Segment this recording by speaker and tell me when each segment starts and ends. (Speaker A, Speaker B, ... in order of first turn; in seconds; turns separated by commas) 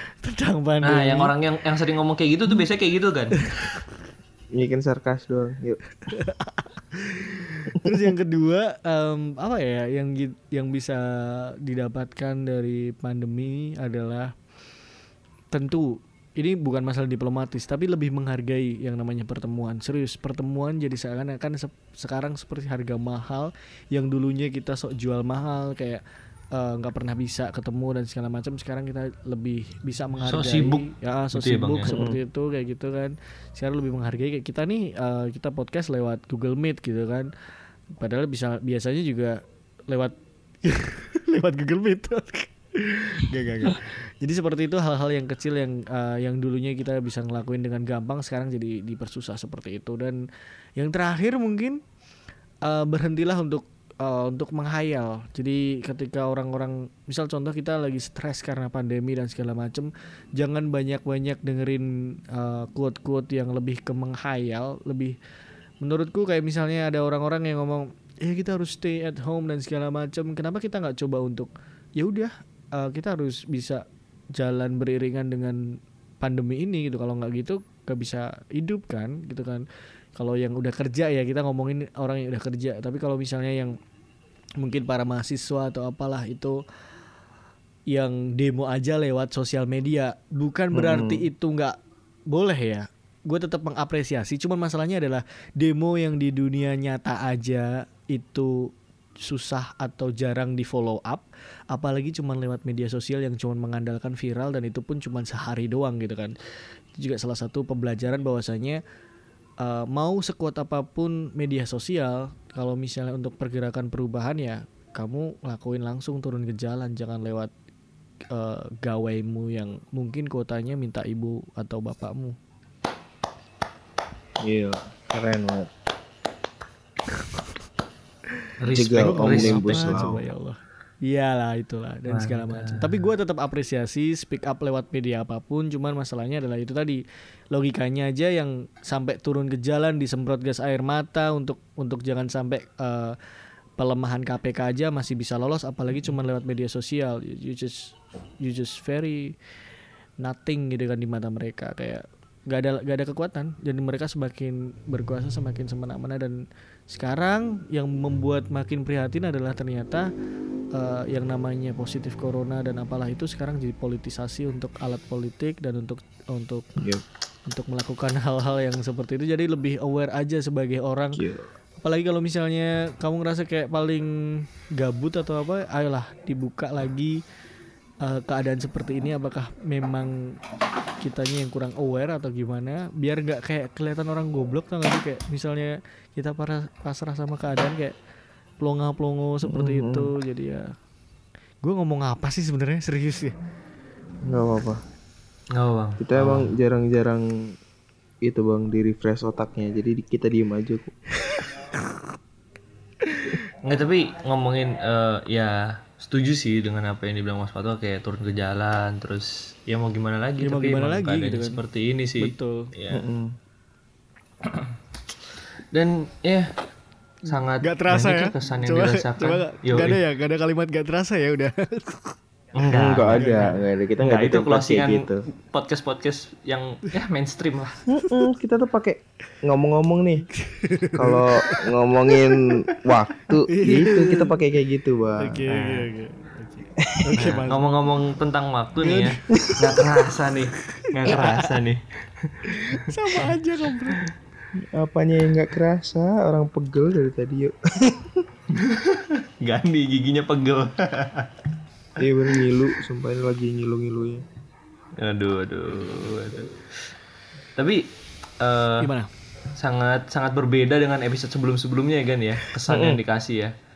Speaker A: 0.2-1.3, Speaker B: 0.8-3.4, Speaker A: 3.4-3.7, Speaker C: 4.5-5.8, Speaker A: 6.1-14.3, Speaker A: 15.5-26.0, Speaker A: 26.5-37.3, Speaker B: 30.2-32.0, Speaker C: 31.9-32.2, Speaker A: 37.9-50.2, Speaker A: 50.8-51.8, Speaker A: 52.6-65.2, Speaker A: 65.8-79.6, Speaker A: 80.2-83.8, Speaker A: 84.6-86.6, Speaker A: 87.9-91.8, Speaker C: 90.7-91.3, Speaker A: 92.3-106.3, Speaker A: 107.0-108.8, Speaker A: 109.6-117.5, Speaker A: 118.3-122.3, Speaker C: 124.4-125.7, Speaker A: 128.4-143.2, Speaker B: 128.6-130.2, Speaker C: 128.7-130.2, Speaker B: 132.1-133.0, Speaker A: 143.8-149.3, Speaker A: 150.2-160.1, Speaker A: 160.7-166.7, Speaker C: 166.8-167.0, Speaker A: 167.5-171.2, Speaker C: 171.1-171.5, Speaker A: 171.8-177.2, Speaker A: 178.0-180.4, Speaker A: 181.0-187.9, Speaker A: 188.6-190.7, Speaker C: 189.4-190.1, Speaker A: 191.6-193.3, Speaker C: 194.2-194.8, Speaker B: 195.5-196.5, Speaker C: 196.0-197.6, Speaker C: 198.2-200.9, Speaker B: 203.6-213.0, Speaker A: 210.4-211.6, Speaker A: 212.2-212.7, Speaker C: 212.9-213.3, Speaker B: 215.7-216.5, Speaker B: 217.3-220.0, Speaker A: 217.6-222.2, Speaker B: 222.5-227.8, Speaker C: 222.6-225.2, Speaker A: 223.1-223.5, Speaker C: 227.9-230.2, Speaker A: 230.2-232.2, Speaker C: 230.9-235.4, Speaker A: 233.2-234.4, Speaker A: 235.2-237.7, Speaker B: 235.5-235.9, Speaker C: 236.8-237.0, Speaker B: 237.1-243.3, Speaker A: 238.8-239.4, Speaker C: 239.3-239.8, Speaker A: 240.8-241.5, Speaker A: 242.5-244.1, Speaker C: 244.6-248.3, Speaker B: 248.6-251.5, Speaker C: 252.0-254.2, Speaker B: 255.0-256.7, Speaker B: 257.6-257.9, Speaker B: 258.4-258.9, Speaker A: 258.8-259.1, Speaker B: 259.5-263.5, Speaker C: 262.7-263.0